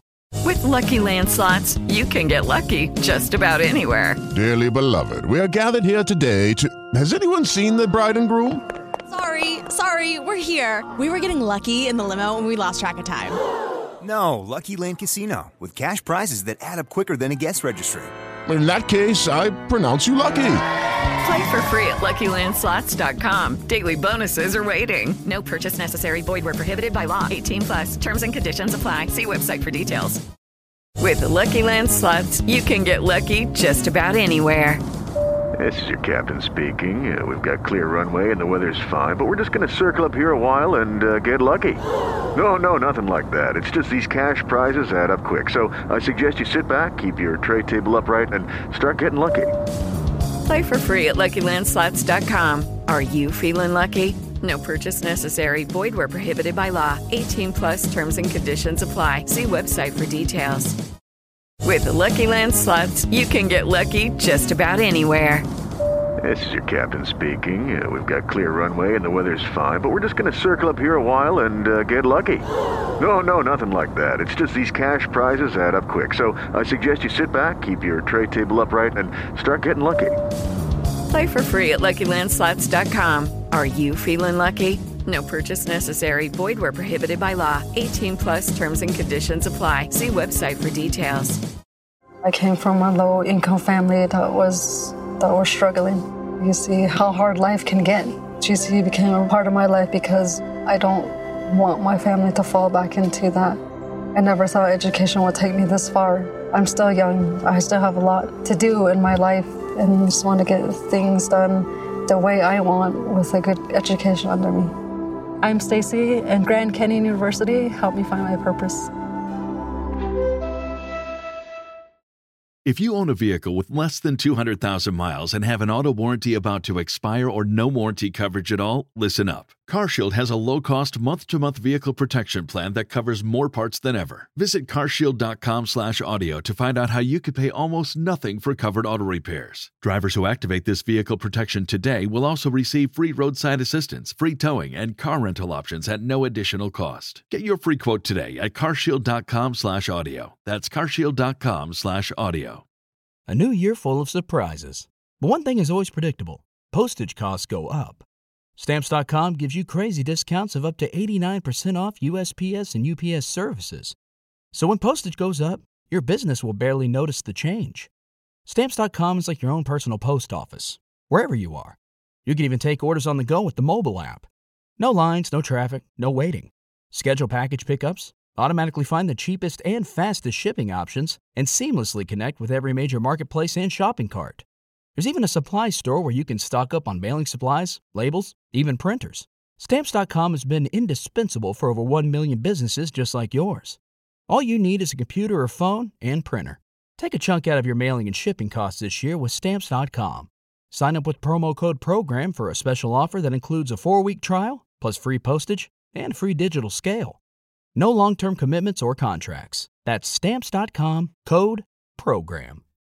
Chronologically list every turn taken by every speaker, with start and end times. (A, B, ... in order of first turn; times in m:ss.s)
0:00.4-0:04.2 A
0:04.3-0:08.6 B
0:09.1-0:13.4 C
0:14.0-0:18.1 D
0:18.4-0:20.6 B
0:21.2-0:30.2 A
0:31.0-0:34.8 A
0:35.6-0:41.8 E
0:42.3-0:49.5 E
0:50.4-1:00.8 A
1:01.6-1:05.4 A
1:06.2-1:12.5 E
1:13.0-1:20.1 E
1:21.1-1:31.4 A
1:32.2-1:43.6 F
1:44.1-1:54.7 F
1:55.4-1:58.9 F
2:02.6-2:32.6 G
2:33.3-2:38.0 H
2:38.6-2:43.9 H
2:44.5-2:47.9 H
2:48.4-2:54.3 H
2:54.8-3:04.4 H
3:05.0-3:13.8 H
3:14.3-3:27.2 H
3:27.8-3:32.6 H